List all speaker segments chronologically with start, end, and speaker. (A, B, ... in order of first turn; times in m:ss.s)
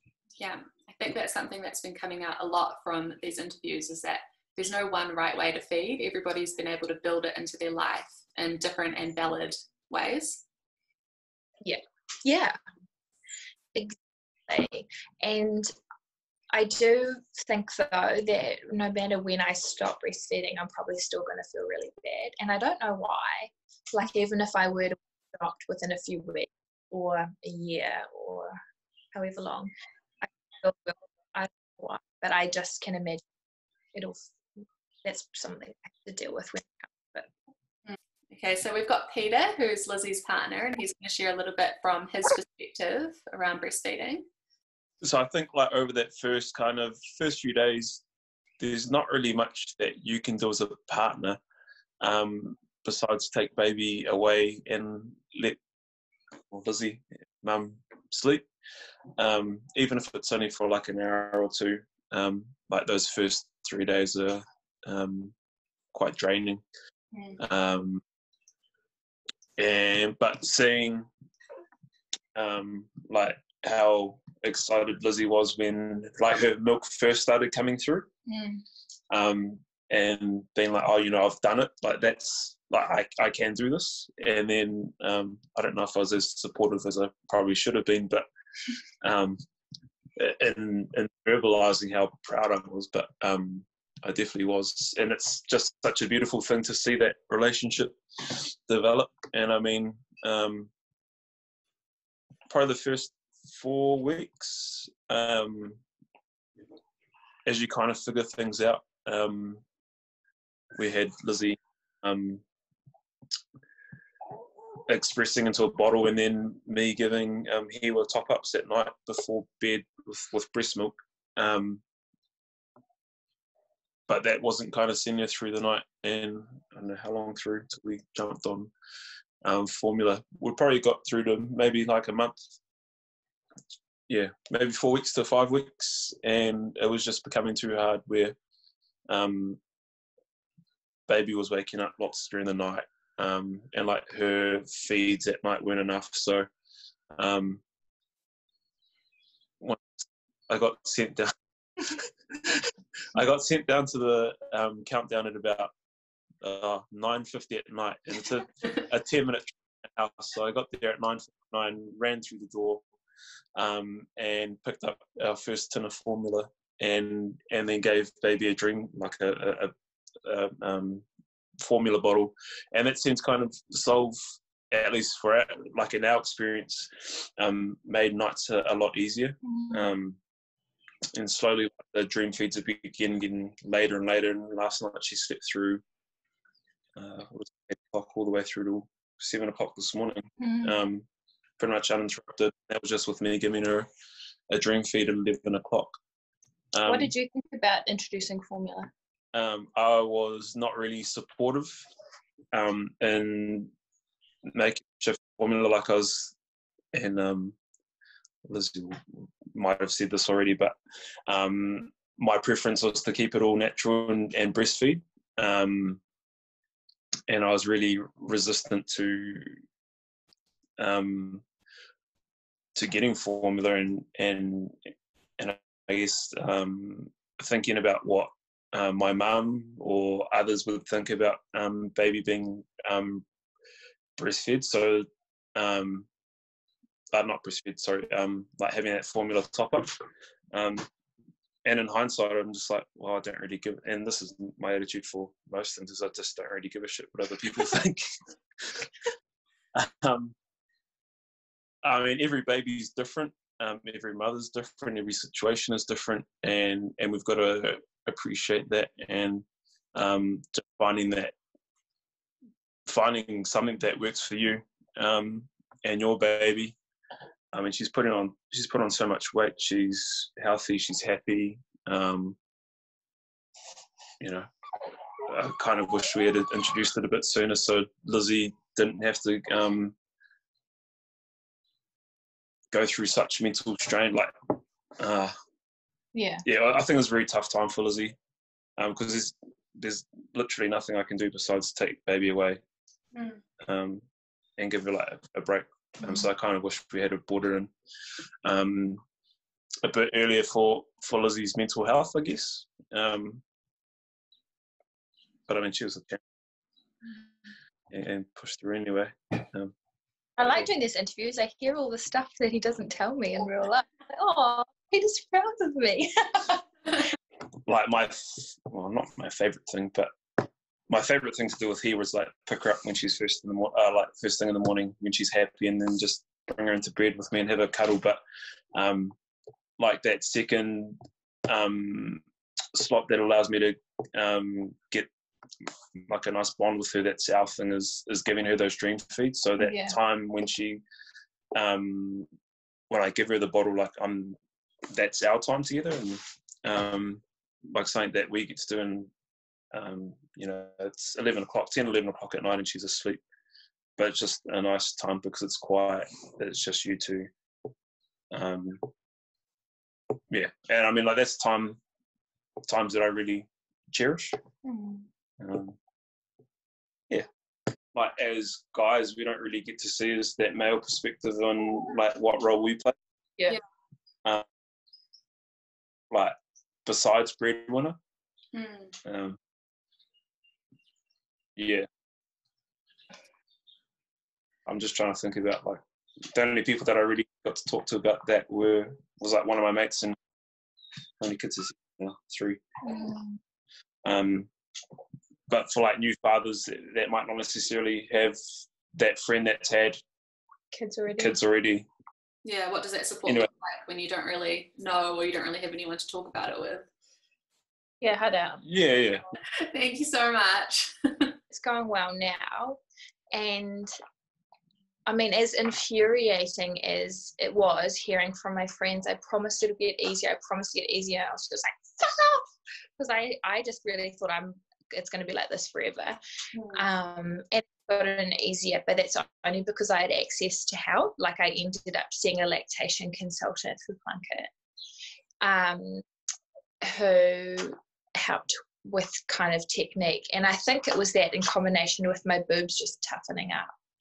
0:00.4-0:10.4 A
0:11.6-0:12.6 B
0:14.5-0:15.7 B
0:16.5-0:28.6 B
0:29.1-0:29.7 B
0:30.2-0:33.2 B
0:33.9-0:37.3 B
0:37.8-0:44.3 A
0:45.0-0:48.0 C
0:48.6-0:51.4 C
0:52.0-0:55.6 C
0:56.5-0:58.5 C
0:59.2-1:05.3 C
1:05.9-1:06.6 C
1:07.1-1:07.4 A
1:07.4-1:08.0 C
1:09.6-1:11.1 C
1:12.3-1:18.1 C
1:18.3-1:18.6 B
1:19.1-1:28.2 C
1:29.0-1:29.4 C
1:30.2-1:40.7 C
1:42.5-1:45.8 C
1:47.4-1:49.6 C
1:50.7-1:52.4 C
1:54.9-2:01.8 C
2:04.1-2:08.7 C
2:09.4-2:12.4 C
2:14.1-2:18.4 C
2:19.1-2:19.6 C
2:21.1-2:26.5 C
2:27.1-2:27.6 C
2:29.6-2:29.9 C
2:30.5-2:35.7 C
2:36.4-2:42.8 C
2:43.6-2:49.7 C
2:50.2-2:51.0 C
2:51.6-2:54.2 C
2:54.7-3:00.2 C
2:59.4-2:59.9 B
3:01.1-3:05.8 C
3:07.0-3:11.1 C
3:10.4-3:10.7 B
3:11.6-3:13.9 C
3:14.5-3:15.9 C
3:16.7-3:17.1 C
3:16.8-3:18.9 B
3:19.3-3:21.8 C
3:22.5-3:23.7 C
3:24.4-3:26.3 C
3:26.9-3:27.6 C
3:28.4-3:30.8 C
3:31.3-3:36.0 C
3:37.3-3:39.5 C
3:40.8-3:41.4 C
3:42.7-3:53.2 C
3:54.2-3:56.1 C
3:57.1-4:00.0 C
4:00.5-4:00.9 C
4:01.6-4:08.1 C
4:08.6-4:08.9 C
4:09.7-4:10.3 C
4:11.8-4:21.3 C
4:22.8-4:26.8 C
4:27.5-4:32.4 C
4:34.2-4:34.5 C
4:35.2-4:40.0 C
4:42.7-4:45.3 C
4:46.1-4:46.4 B
4:46.4-4:48.2 C
4:48.8-4:52.6 C
4:53.1-4:53.4 A
4:53.6-4:54.0 C
4:54.6-4:57.7 C
4:58.4-4:59.0 C
4:59.8-5:03.4 C
5:05.5-5:06.2 C
5:07.9-5:09.7 C
5:10.4-5:16.6 B
5:10.4-5:10.7 C
5:17.6-5:28.2 C
5:28.8-5:29.2 C
5:29.8-5:35.1 C
5:35.9-5:40.8 C
5:39.6-5:40.0 B
5:41.5-5:42.3 C
5:42.9-5:44.4 C
5:44.9-5:49.1 C
5:49.7-5:53.2 C
5:54.0-5:57.3 C
5:58.3-5:58.9 C
6:00.3-6:01.8 C
6:02.6-6:04.4 C
6:04.6-6:05.0 B
6:05.4-6:05.8 C
6:07.9-6:12.9 C
6:16.1-6:18.0 C
6:18.5-6:19.0 A
6:19.0-6:19.4 C
6:21.6-6:21.9 C
6:24.6-6:25.8 C
6:26.3-6:30.2 C
6:31.2-6:32.6 C
6:32.8-6:33.4 B
6:34.0-6:34.5 C
6:35.5-6:38.4 C
6:38.9-6:40.0 C
6:40.7-6:41.4 B
6:41.1-6:41.9 C
6:42.4-6:46.9 A
6:48.0-6:48.6 B
6:48.6-6:49.2 C
6:49.5-6:51.3 A
6:51.5-6:52.8 B
6:53.3-6:53.9 B
6:55.0-7:02.5 B
7:03.0-7:06.2 B
7:06.5-7:06.8 A
7:06.7-7:14.5 B
7:15.4-7:16.0 B
7:16.8-7:23.7 B